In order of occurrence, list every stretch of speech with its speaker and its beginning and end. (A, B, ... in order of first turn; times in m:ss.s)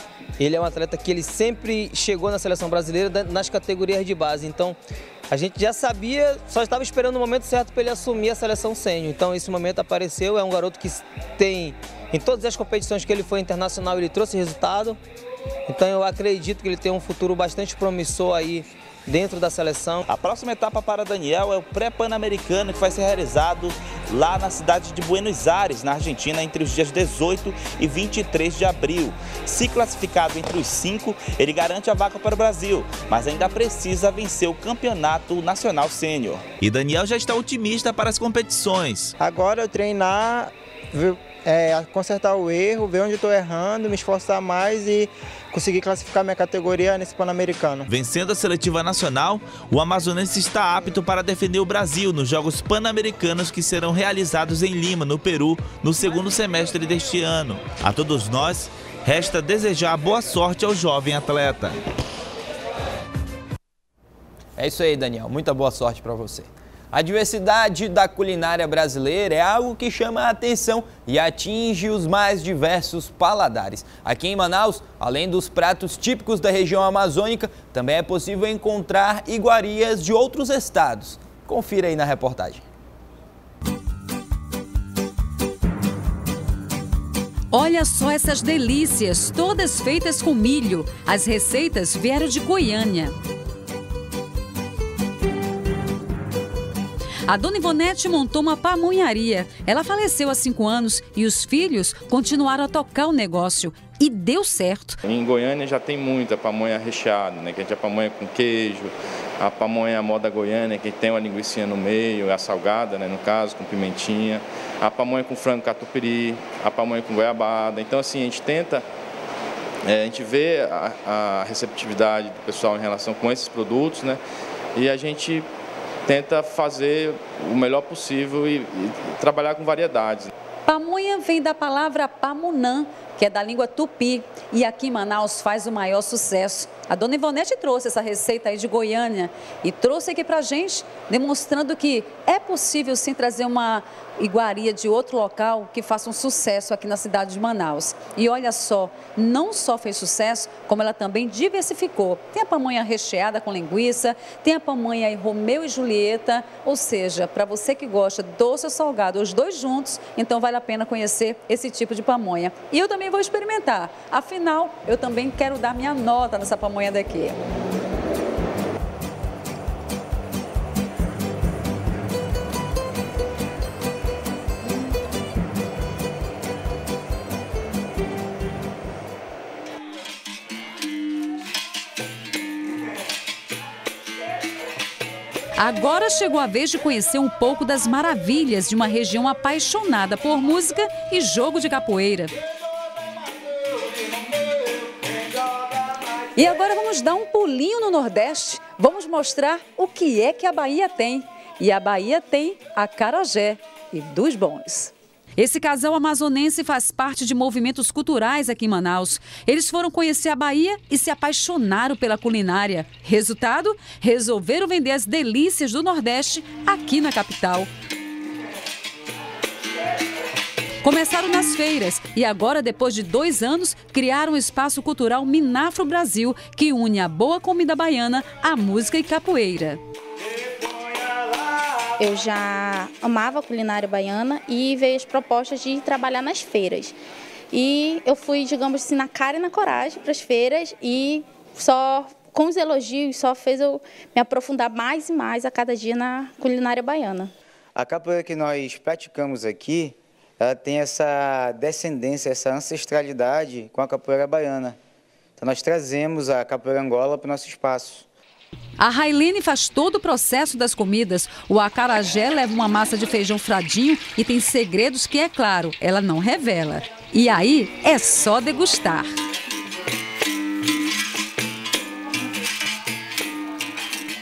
0:00.4-0:04.8 A
0:05.3-0:15.0 A
0:15.7-0:20.0 A
0:20.1-0:39.1 B
0:39.2-0:47.9 C
0:47.8-1:01.8 B
1:04.6-1:22.6 D
1:27.5-1:33.1 E
1:37.3-1:45.0 E
1:45.0-1:48.9 F
1:49.4-1:58.8 F
1:59.9-2:04.2 F
2:04.8-2:05.4 F
2:06.1-2:10.3 F
2:10.6-2:47.4 E
3:05.6-3:12.3 E
3:16.3-3:37.7 E
3:40.8-3:49.8 E
3:52.0-3:57.0 G
3:57.5-4:07.3 G
4:07.8-4:14.8 H
4:15.4-4:18.0 H
4:18.8-4:29.0 E